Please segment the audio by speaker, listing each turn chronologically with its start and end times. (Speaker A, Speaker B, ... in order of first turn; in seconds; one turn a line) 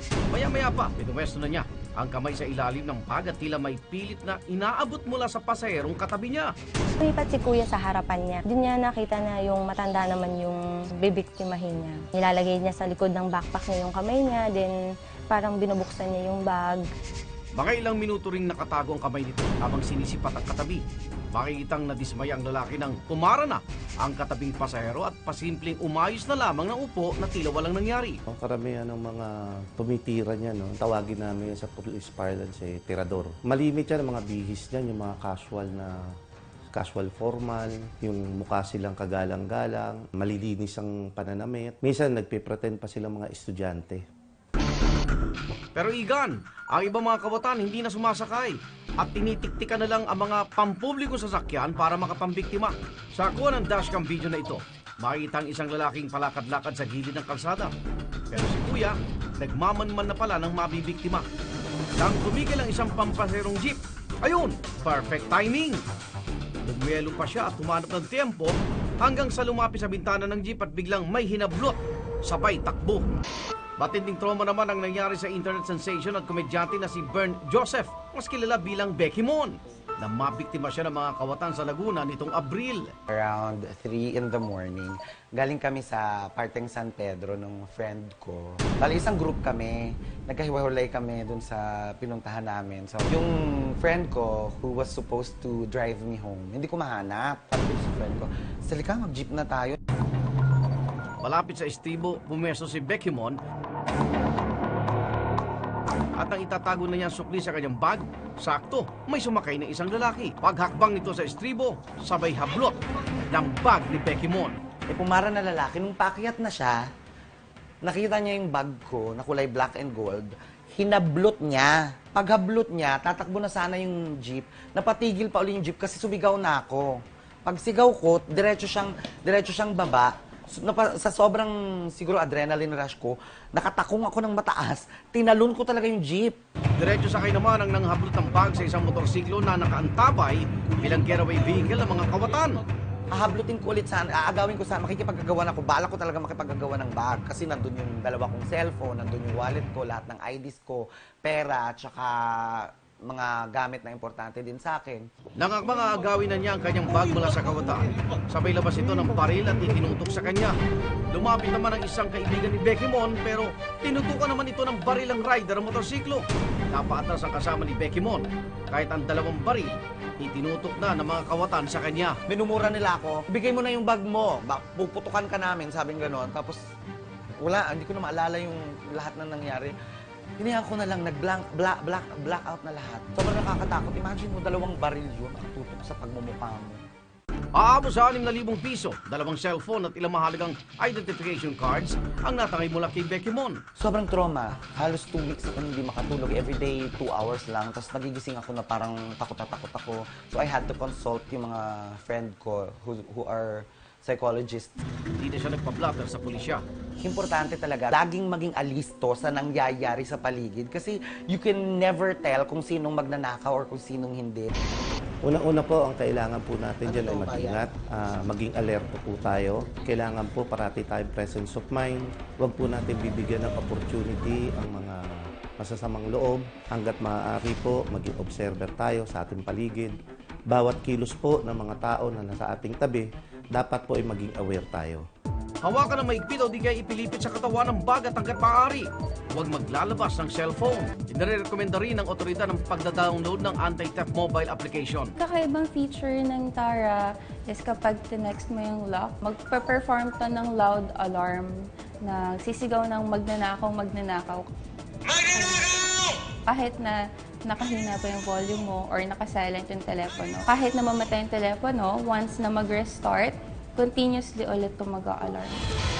Speaker A: 0.3-6.5
Speaker B: 7.0-14.7
Speaker B: 15.3-16.9
Speaker A: 17.5-28.2
Speaker C: 28.3-36.0
Speaker C: 36.7-44.0
Speaker A: 45.7-57.7
Speaker A: 58.3-61.2
Speaker A: 62.0-65.8
Speaker A: 66.6-73.1
Speaker A: 73.8-82.9
Speaker D: 83.1-99.8
Speaker A: 101.2-103.4
Speaker A: 106.2-114.5
Speaker D: 114.9-116.8
Speaker D: 117.8-136.4
Speaker A: 136.8-142.6
Speaker D: 143.1-155.1
Speaker A: 155.4-160.6
Speaker A: 161.1-172.2
Speaker D: 172.3-176.6
Speaker D: 177.4-179.8
Speaker D: 180.4-186.8
Speaker A: 187.5-193.6
Speaker D: 193.8-204.7
Speaker A: 205.2-206.6
Speaker D: 207.0-214.5
Speaker C: 215.2-230.0
Speaker D: 216.8-217.6
Speaker C: 230.5-235.0
Speaker A: 235.6-245.1
Speaker E: 245.2-254.5
Speaker E: 255.1-265.6